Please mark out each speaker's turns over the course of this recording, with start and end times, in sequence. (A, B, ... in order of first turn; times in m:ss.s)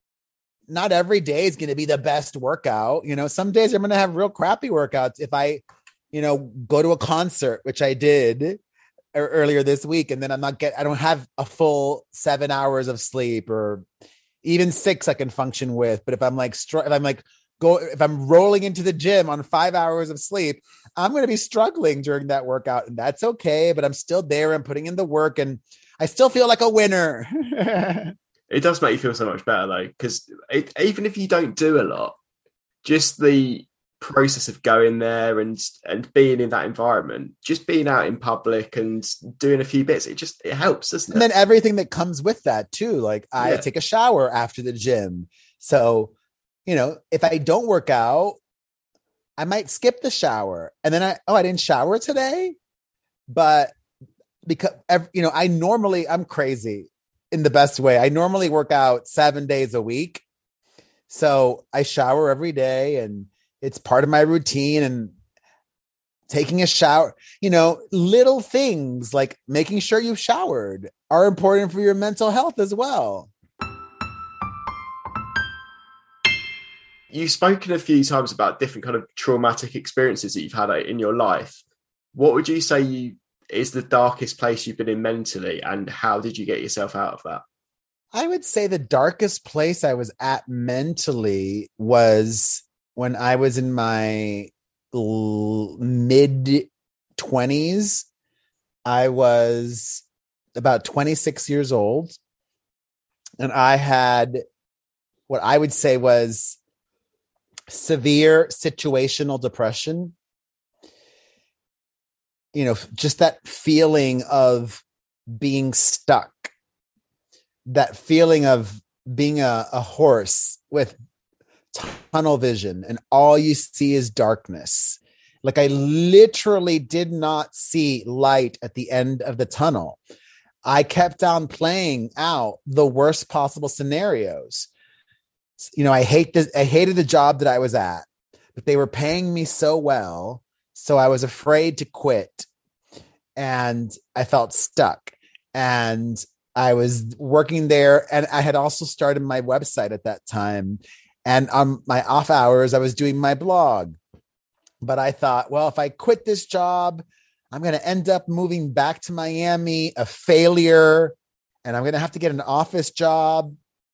0:00.7-0:08.6 A
0:09.1-0:13.8 A
0:14.4-0:28.1 A
0:28.5-0:32.2 B
0:32.8-0:41.2 B
0:41.1-0:46.1 A
0:43.4-0:43.6 B
0:46.6-0:48.4 A
0:49.4-0:52.6 A
0:53.3-0:53.7 A
0:54.4-1:00.2 A
1:01.1-1:05.1 A
1:06.3-1:13.3 A
1:17.1-1:21.6 B
1:22.1-1:27.4 B
1:28.1-1:38.0 A
1:38.8-1:40.0 A
1:40.5-1:42.2 A
1:43.4-1:44.4 A
1:45.3-1:46.6 A
1:47.7-1:50.1 A
1:52.5-1:56.5 A
1:57.7-2:01.0 A
2:01.7-2:10.0 A
2:10.6-2:14.7 A
2:15.6-2:22.5 A
2:23.4-2:34.0 A
2:34.8-2:43.5 A